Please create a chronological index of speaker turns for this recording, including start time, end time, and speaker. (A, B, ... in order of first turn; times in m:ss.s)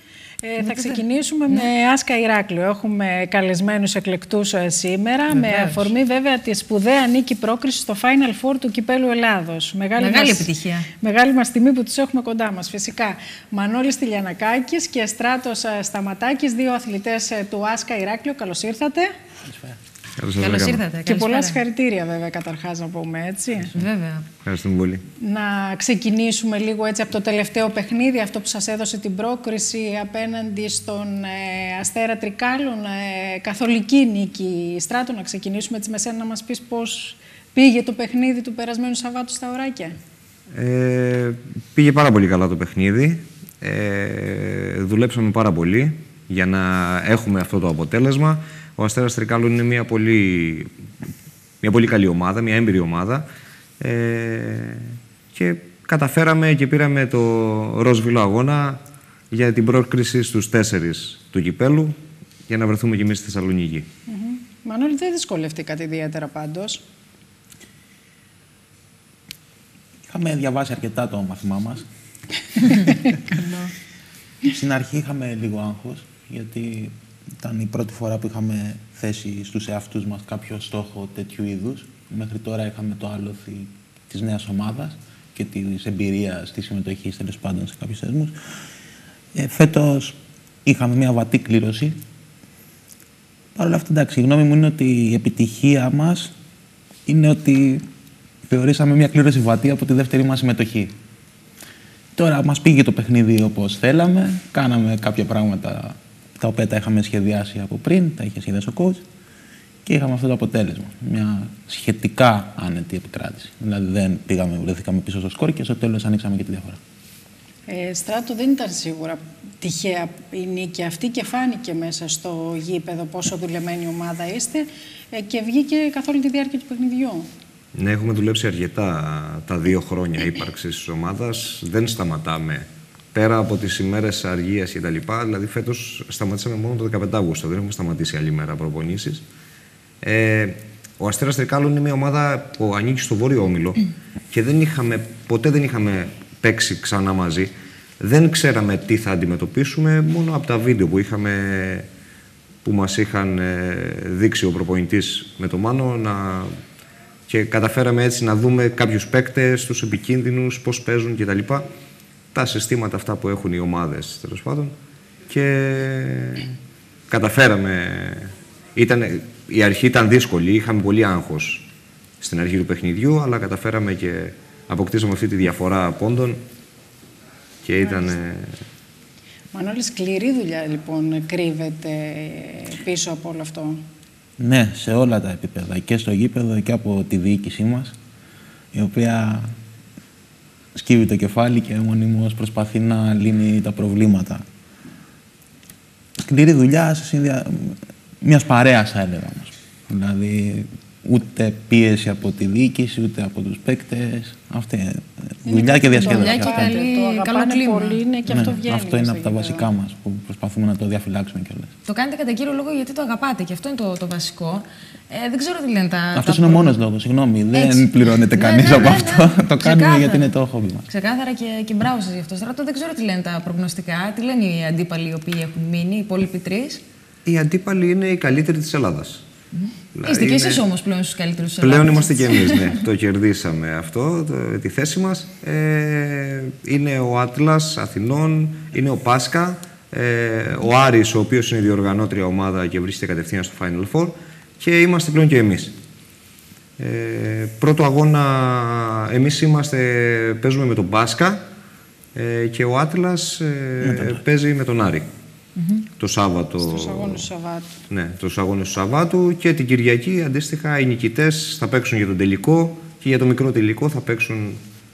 0:00.4-0:10.5 A
0:00.6-0:01.7 B
0:05.3-0:05.9 B
0:10.0-0:10.9 B
0:11.0-0:19.1 A
0:19.5-0:19.8 C
0:20.2-0:20.8 D
0:20.4-0:21.6 B
0:21.0-0:23.7 A
0:23.7-0:24.3 B
0:24.4-0:25.0 D
0:25.2-0:40.0 A
0:40.5-0:50.7 D
0:51.6-0:53.3 D
0:53.8-1:02.0 D
1:02.5-1:03.9 D
1:04.1-1:06.8 A
1:10.1-1:11.8 C
1:14.4-1:28.3 C
1:29.3-1:32.0 C
1:33.6-1:36.3 C
1:37.0-1:37.8 C
1:38.5-1:40.9 C
1:42.2-1:49.0 C
1:49.8-1:56.8 C
1:57.7-2:07.3 A
2:07.7-2:19.2 D
2:20.0-2:31.9 D
2:32.6-2:36.5 D
2:37.3-2:41.7 D
2:42.3-2:44.7 D
2:45.3-2:46.5 D
2:47.1-2:51.7 D
2:52.2-2:56.4 D
2:57.6-2:58.6 D
2:59.5-3:03.8 A
3:04.4-3:07.9 C
3:08.7-3:09.5 C
3:10.7-3:14.4 C
3:16.2-3:26.7 C
3:25.4-3:29.6 A
3:25.9-3:28.4 B
3:28.3-3:31.7 C
3:31.8-3:36.8 B
3:36.1-3:40.9 C
3:37.5-3:40.3 B
3:40.9-3:46.8 B
3:47.2-3:49.2 D
3:49.5-3:52.8 B
3:49.9-3:50.6 D
3:51.6-4:05.8 D
4:06.8-4:11.4 D
4:12.1-4:15.1 D
4:13.8-4:14.2 C
4:15.6-4:15.8 B
4:16.0-4:17.3 D
4:16.6-4:17.7 A
4:17.9-4:24.6 D